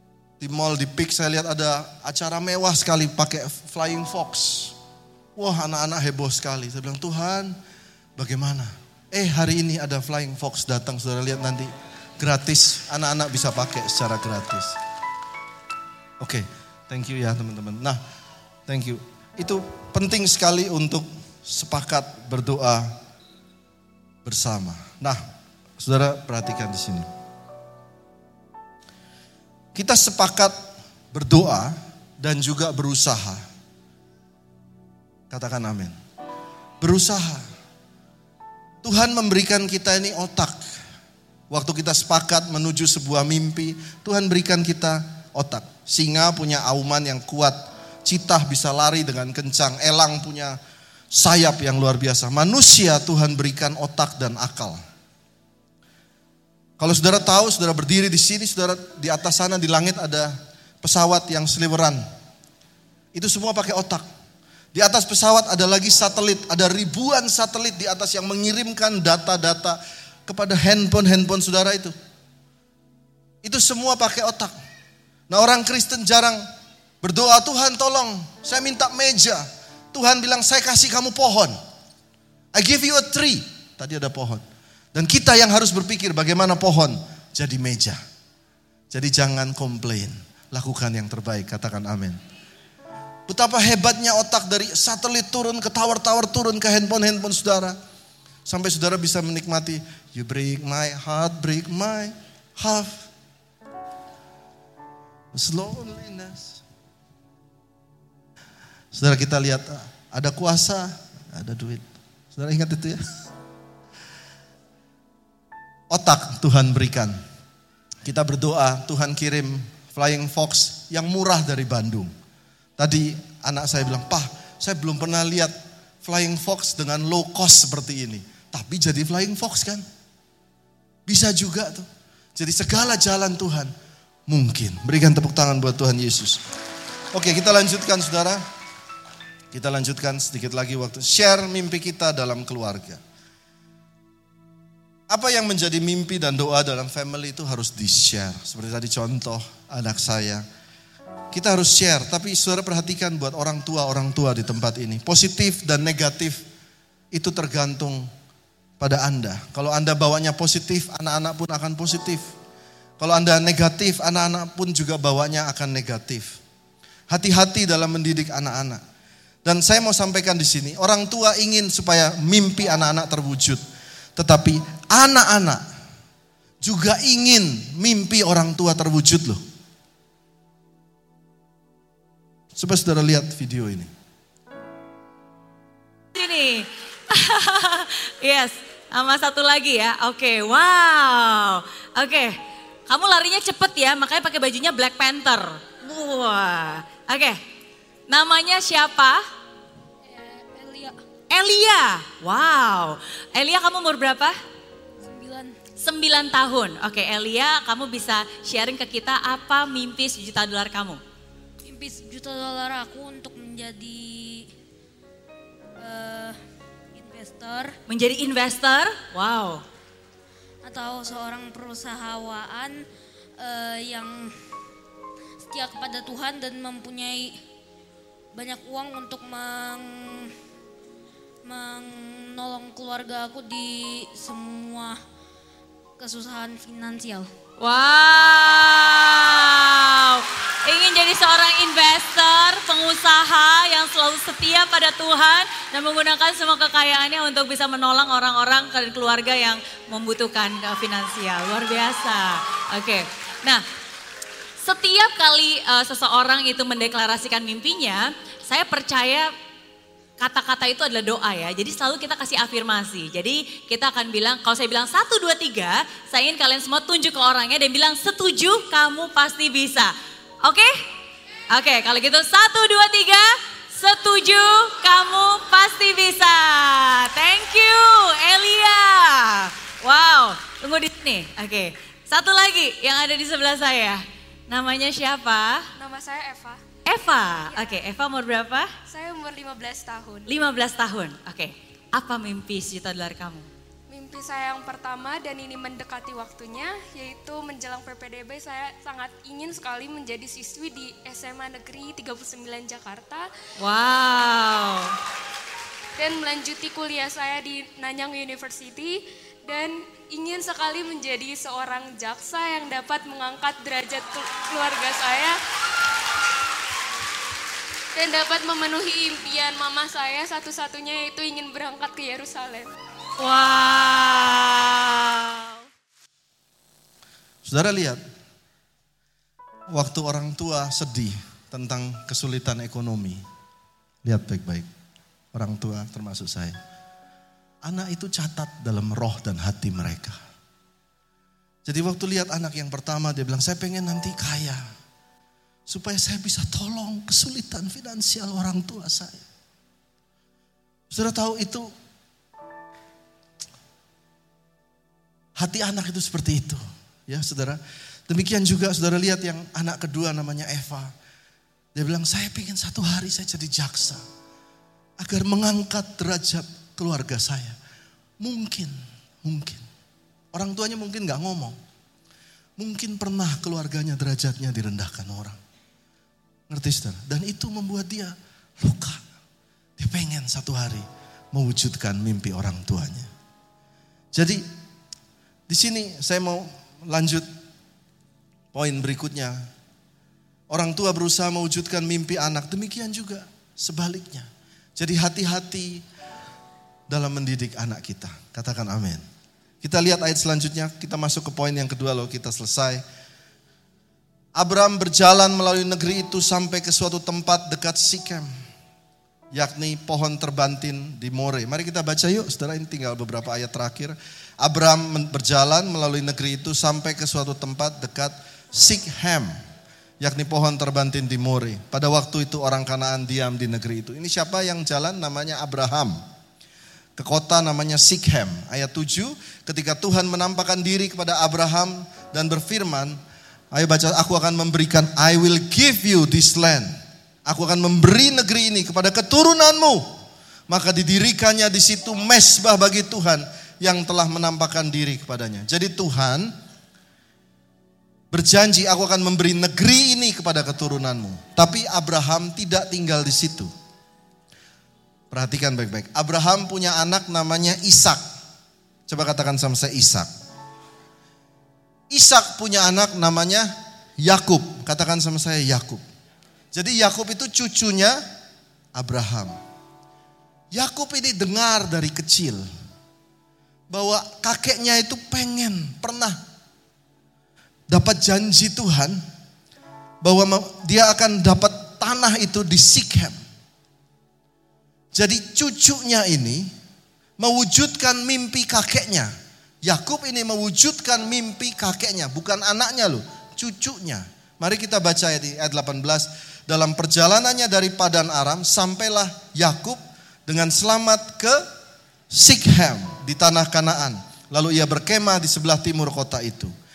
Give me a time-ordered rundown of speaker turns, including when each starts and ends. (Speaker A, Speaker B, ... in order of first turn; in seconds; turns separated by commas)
Speaker A: 0.4-4.7, Speaker A: 5.3-7.5, Speaker A: 8.2-14.8, Speaker A: 16.2-18.0, Speaker A: 18.7-22.9, Speaker A: 24.2-25.2, Speaker A: 25.8-27.1, Speaker A: 29.7-30.5, Speaker A: 31.1-33.4, Speaker A: 35.3-35.9, Speaker A: 36.8-37.4, Speaker A: 38.8-40.6, Speaker A: 41.5-50.6, Speaker A: 51.1-54.8, Speaker A: 56.8-62.0, Speaker A: 63.1-64.0, Speaker A: 64.7-71.9, Speaker A: 73.4-74.5, Speaker A: 75.3-76.4, Speaker A: 77.0-81.6, Speaker A: 82.5-84.4, Speaker A: 84.9-88.0, Speaker A: 88.9-92.2, Speaker A: 93.3-97.8, Speaker A: 98.5-103.1, Speaker A: 105.3-106.6, Speaker A: 108.9-113.0, Speaker A: 115.9-117.1, Speaker A: 118.0-122.1, Speaker A: 122.8-129.8, Speaker A: 131.1-133.7, Speaker A: 134.3-136.4, Speaker A: 137.1-138.4, Speaker A: 139.5-143.0, Speaker A: 145.1-150.4, Speaker A: 151.3-156.4, Speaker A: 157.1-158.1, Speaker A: 158.8-162.3, Speaker A: 163.0-166.4, Speaker A: 167.1-168.8, Speaker A: 169.4-173.6, Speaker A: 174.2-175.6, Speaker A: 176.6-179.4, Speaker A: 182.5-183.9, Speaker B: 186.1-192.3, Speaker B: 192.9-197.4, Speaker B: 198.1-199.2, Speaker C: 200.0-201.0, Speaker B: 201.3-204.4, Speaker D: 205.0-205.6, Speaker B: 205.8-211.0, Speaker D: 211.7-214.5, Speaker D: 215.8-216.4, Speaker D: 216.9-217.8, Speaker B: 217.9-219.6, Speaker D: 220.6-222.8, Speaker D: 223.4-224.3, Speaker D: 225.5-227.4, Speaker D: 228.3-230.3, Speaker D: 231.4-235.0, Speaker D: 236.0-237.3, Speaker B: 237.6-253.6, Speaker B: 254.6-259.3, Speaker B: 260.2-269.9, Speaker B: 270.4-270.8, Speaker B: 271.5-285.7, Speaker C: 285.8-286.6, Speaker B: 286.9-288.7, Speaker C: 288.9-290.3, Speaker B: 290.3-293.5, Speaker C: 293.9-303.3, Speaker B: 303.6-304.9, Speaker C: 306.0-315.4, Speaker C: 317.9-322.7, Speaker B: 323.2-325.6, Speaker A: 327.4-328.0, Speaker A: 329.7-333.2, Speaker A: 334.0-334.7, Speaker A: 335.3-336.6, Speaker A: 337.6-340.2, Speaker A: 341.6-344.6, Speaker A: 345.7-349.2, Speaker A: 350.9-351.7, Speaker A: 355.4-360.9, Speaker A: 361.7-364.0, Speaker A: 365.0-367.6, Speaker A: 368.2-369.6, Speaker A: 370.3-371.6, Speaker A: 372.6-375.4, Speaker A: 376.5-379.0, Speaker A: 379.8-383.1, Speaker A: 384.1-384.4, Speaker A: 385.5-387.2, Speaker A: 388.5-389.4, Speaker A: 390.5-395.8, Speaker A: 396.9-399.0, Speaker A: 399.6-402.8, Speaker A: 404.4-408.3, Speaker A: 409.3-419.3, Speaker A: 420.0-426.0, Speaker A: 427.0-433.0, Speaker A: 433.5-436.7, Speaker A: 437.3-439.9, Speaker A: 440.5-446.3, Speaker A: 448.1-453.5, Speaker A: 455.1-458.0, Speaker A: 458.9-460.1, Speaker A: 461.9-465.8, Speaker A: 466.5-468.0, Speaker A: 468.8-469.3, Speaker A: 470.5-472.4, Speaker A: 473.7-476.2, Speaker A: 477.7-479.0, Speaker A: 480.0-483.1, Speaker A: 484.9-486.5, Speaker A: 487.2-489.1, Speaker A: 489.6-501.4, Speaker A: 502.1-506.5